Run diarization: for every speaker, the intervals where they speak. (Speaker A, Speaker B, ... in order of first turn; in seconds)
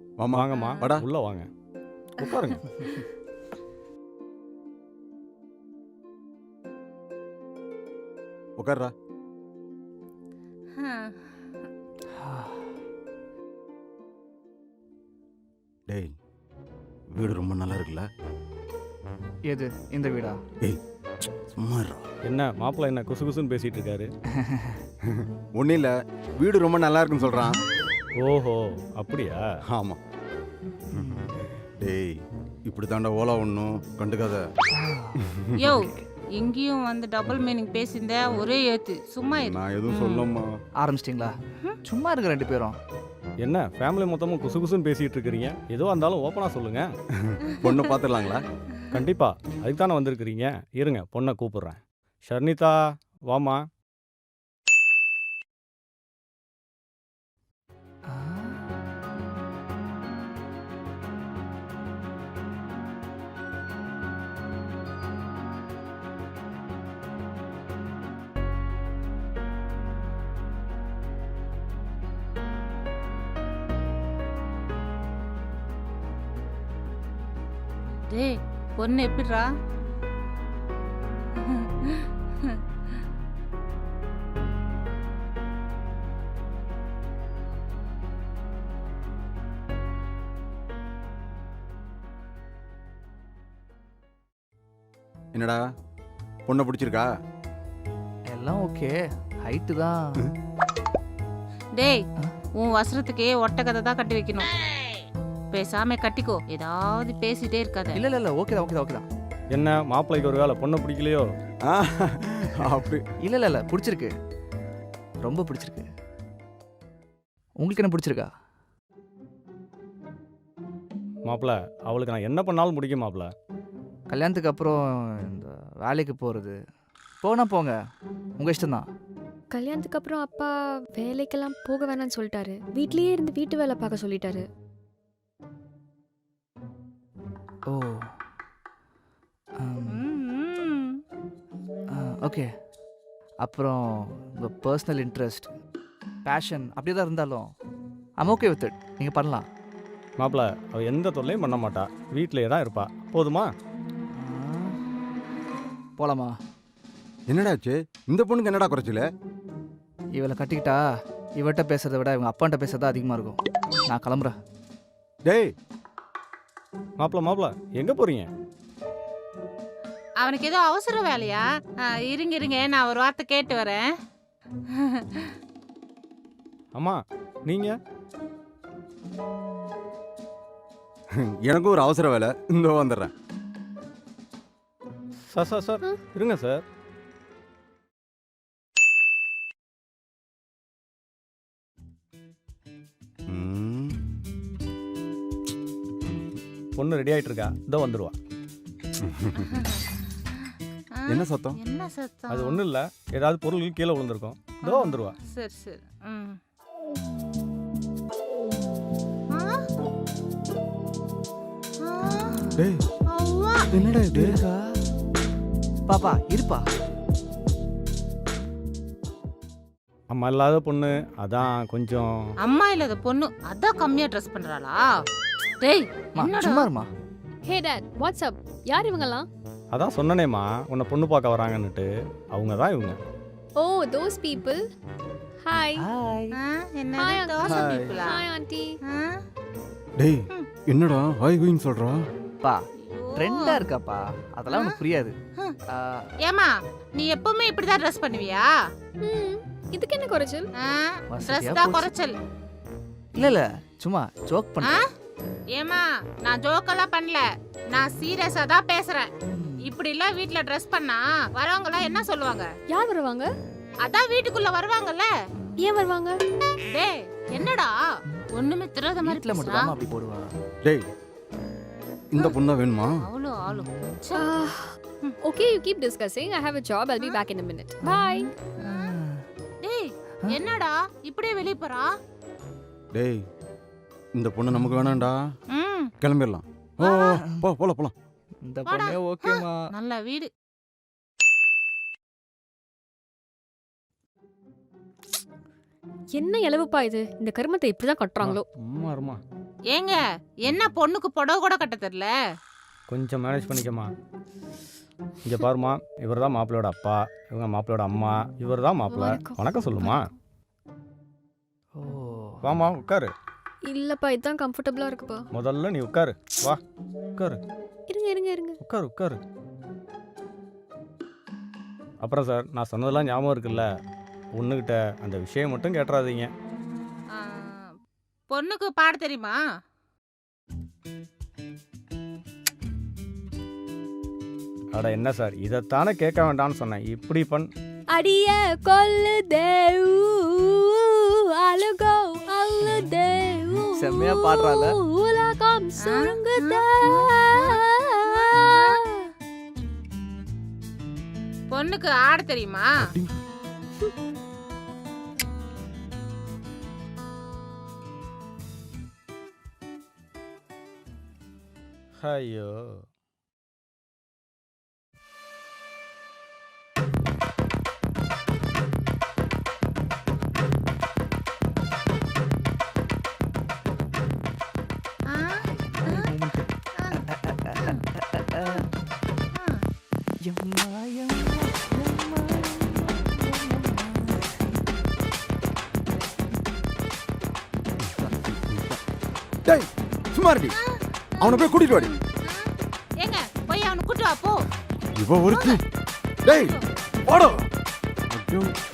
Speaker A: 0.2-1.0, 8.6-8.9, 15.9-16.1, 17.1-18.1, 21.5-22.1, 25.1-27.6, 29.7-30.0, 30.9-34.4, 35.2-35.5, 39.4-40.5, 47.2-48.4, 95.3-95.6, 96.5-97.1, 111.6-113.0, 157.3-159.1, 165.2-165.5, 181.3-183.1, 193.3-194.1, 196.0-196.4, 199.0-199.7, 201.1-201.6, 212.6-212.8, 213.7-214.4, 237.4-237.9, 240.0-242.0, 272.1-273.0, 282.9-283.2, 284.1-285.2, 286.0-287.9, 352.8-353.2, 387.8-388.8, 389.4-390.6, 391.2-391.9, 394.9-395.6, 396.2-397.5, 398.1-398.5
Speaker B: 0.3-1.5, 2.2-2.7, 22.2-24.1, 28.2-29.4, 43.4-46.9, 48.9-52.8, 53.3-53.6, 109.5-111.3, 121.2-123.3, 150.2-153.5, 167.0-168.3, 176.7-177.8, 185.3-186.6, 196.8-198.1, 202.3-205.2, 220.1-222.1, 229.7-233.0, 298.2-299.2, 302.9-303.9, 305.2-310.1, 312.4-313.1, 315.3-316.6, 318.6-319.2, 322.0-323.7, 324.4-326.3, 334.7-337.5, 362.0-362.8
Speaker C: 0.5-0.8, 10.8-11.3, 35.6-40.3, 47.5-48.0, 78.1-79.5, 81.3-82.6, 101.8-102.0, 102.6-104.5, 105.5-108.0, 139.9-141.0, 170.2-173.8, 174.7-175.3, 199.4-202.6, 204.6-206.4, 209.3-209.6, 211.8-212.3, 213.1-213.7, 222.4-224.8, 225.6-226.7, 236.3-238.2, 238.9-239.2, 242.9-243.6, 244.5-244.8, 246.2-248.5, 250.6-252.1, 255.5-259.1, 259.6-262.5, 263.8-265.1, 266.7-267.7, 268.4-269.7, 273.0-274.3, 277.0-277.2, 278.6-278.9, 279.6-281.9, 285.5-285.9, 288.7-290.3, 299.7-302.1, 327.1-327.7, 328.3-329.4, 345.8-347.6, 348.1-348.8, 351.5-352.9, 375.1-376.1, 379.3-379.6, 390.6-394.4, 395.3-395.6, 396.3-396.6
Speaker D: 12.2-12.6, 19.4-20.4, 24.4-24.8, 34.7-36.0, 40.8-42.8, 58.1-58.6, 98.3-100.0, 107.9-109.0, 113.2-114.1, 115.2-115.8, 117.6-118.3, 124.1-126.5, 127.2-127.7, 128.4-128.8, 137.7-138.1, 139.6-140.1, 141.9-142.5, 143.4-145.5, 146.2-147.4, 148.2-149.4, 154.2-154.7, 156.0-156.3, 160.1-160.8, 161.4-164.3, 212.0-212.6, 213.7-214.7, 215.9-216.6, 226.2-226.9, 235.8-236.3, 243.1-245.1, 245.7-246.1, 251.1-251.9, 253.1-254.8, 259.3-259.7, 269.0-270.2, 273.5-273.9, 277.8-279.2, 284.5-285.0, 288.4-289.6, 311.8-312.4, 343.7-344.7, 375.4-378.6, 380.2-384.4
Speaker E: 129.5-134.4, 227.4-229.3, 233.6-234.6, 235.4-235.9, 237.0-238.7, 249.0-250.5, 262.7-263.3, 265.6-266.2, 274.1-278.3, 296.1-298.4, 308.9-310.1, 313.6-315.3, 317.9-318.6, 337.9-349.1